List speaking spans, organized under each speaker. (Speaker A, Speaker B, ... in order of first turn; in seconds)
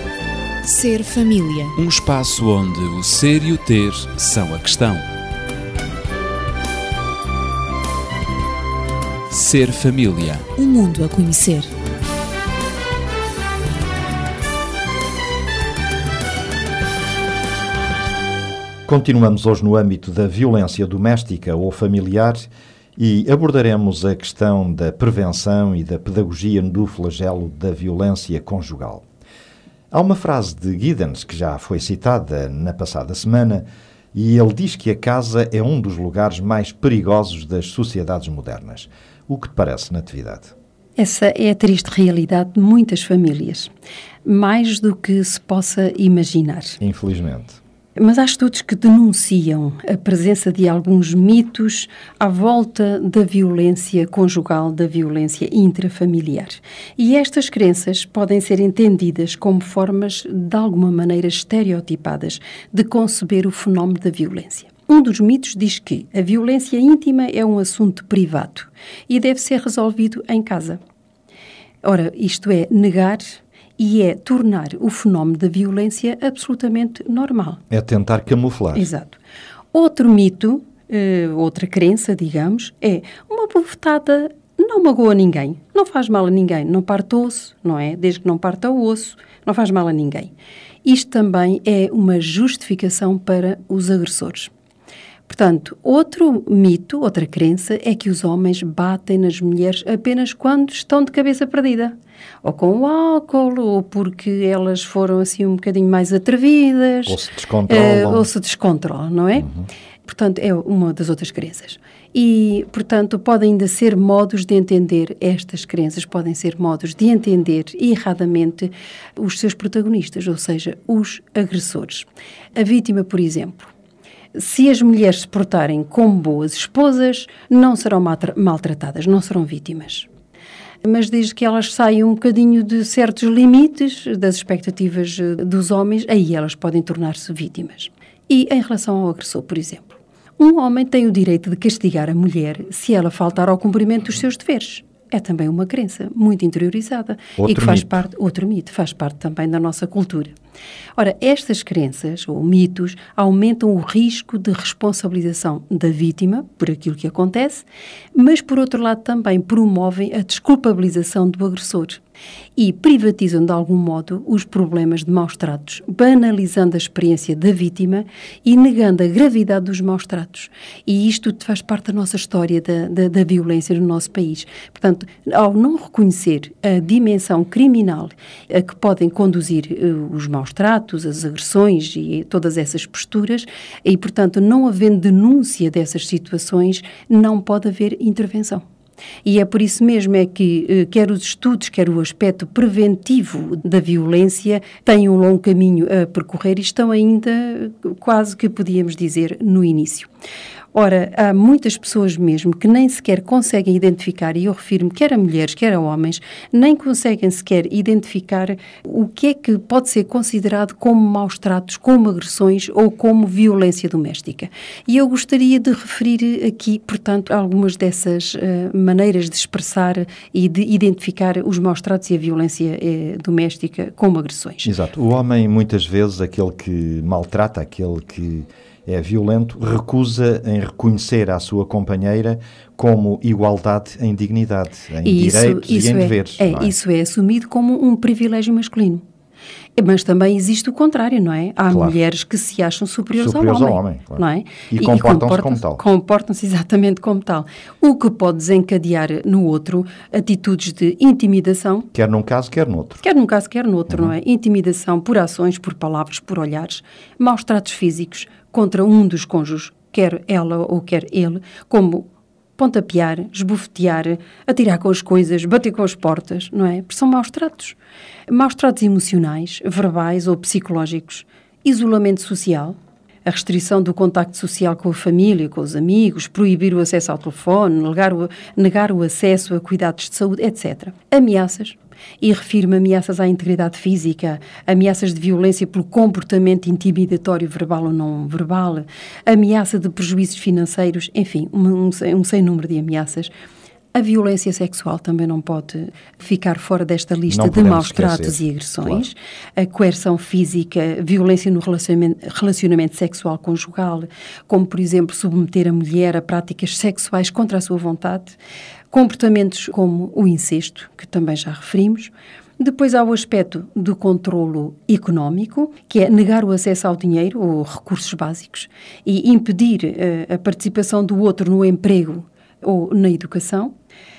Speaker A: 0.6-1.8, 10.6-11.7
Speaker B: 1.8-5.1, 9.3-10.5
Speaker C: 18.9-29.0, 29.9-40.5, 46.8-47.6, 77.7-78.9, 107.1-108.3, 109.4-109.7, 147.4-148.0, 224.6-236.7, 243.2-245.8, 251.9-253.0, 253.9-254.1, 297.3-299.1
Speaker D: 41.0-43.7, 44.2-46.8, 48.0-70.8, 71.8-77.6, 78.7-79.2, 79.7-90.3, 90.8-94.5, 95.3-109.5, 110.1-123.7, 124.3-130.1, 130.8-150.3, 151.0-162.0, 162.6-188.6, 189.2-200.1, 200.7-224.7, 235.0-239.0, 239.8-251.9, 253.0-262.1, 262.6-267.8, 268.3-293.3, 293.9-308.4, 308.9-323.7